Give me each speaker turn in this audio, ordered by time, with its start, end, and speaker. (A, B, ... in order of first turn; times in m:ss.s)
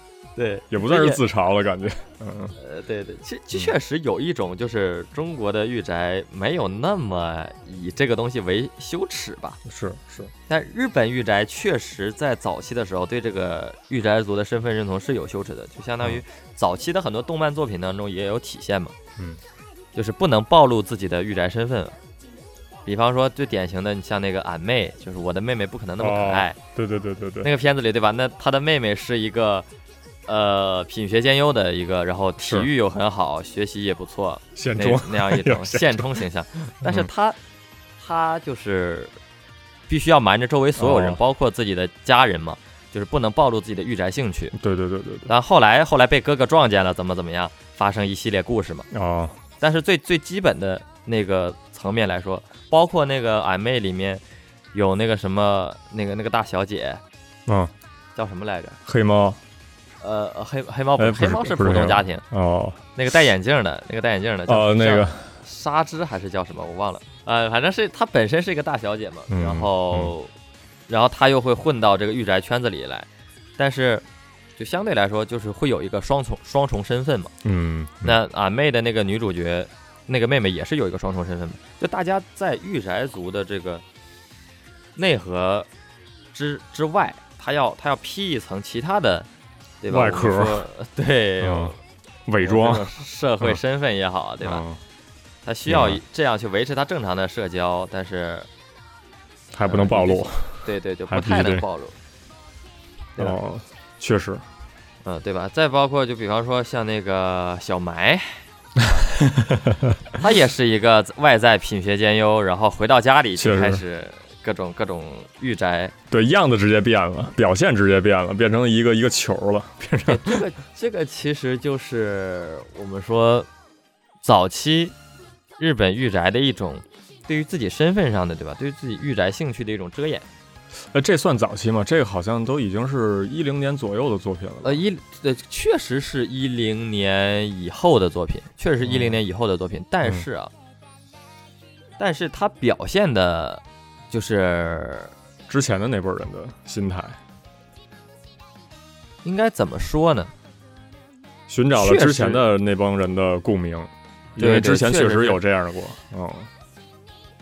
0:00.4-0:01.2 A
0:00.7-0:02.6 B
0:02.6-0:09.6 A
0:09.6-0:10.3 B
0:10.5-0:18.9 A
0:19.9-0:22.0 A
0:22.8-0:26.6 A
0:26.0-0:27.5 B
0:27.4-0:29.7 A
0:30.3-0:37.4 A
0:32.4-0:32.7 B
0:34.6-0:36.2 B
0:36.8-0:37.1 B
0:38.0-0:39.1 A
0:39.9-0:44.5 A
0:40.8-0:41.2 B
0:44.5-0:45.3 B
0:45.3-0:48.9 A
0:48.9-0:49.4 B
0:49.6-0:57.0 A
0:57.5-0:57.7 B
0:58.1-0:58.8 A
0:58.8-0:59.4 B
1:00.0-1:02.2 A
1:01.0-1:02.8 B
1:03.0-1:10.3 A
1:04.5-1:05.4 B
1:09.3-1:10.1 B
1:10.9-1:14.0 A
1:14.6-1:17.3 A
1:17.4-1:18.2 B
1:18.0-1:23.8 A
1:25.0-1:25.7 A
1:26.3-1:29.3 A
1:29.8-1:31.8 A
1:29.9-1:30.6 B
1:31.4-1:31.7 B
1:32.3-1:33.6 B
1:32.4-1:34.6 A
1:34.4-1:34.8 B
1:35.4-1:38.5 A
1:35.7-1:36.0 B
1:39.5-1:41.6 B
1:39.7-1:42.0 A
1:43.2-1:44.4 B
1:45.0-1:49.0 A
1:48.8-1:50.0 B
1:50.2-1:55.9 A
1:53.4-1:53.8 B
1:56.1-2:00.4 B
2:00.1-2:03.5 A
2:04.2-2:05.0 A
2:05.6-2:10.2 A
2:10.9-2:14.8 B
2:14.6-2:20.5 A
2:18.8-2:19.2 B
2:22.0-2:25.1 A
2:25.5-2:27.2 B
2:29.2-2:30.3 A
2:31.5-2:36.5 B
2:31.7-2:32.4 A
2:34.4-2:35.4 A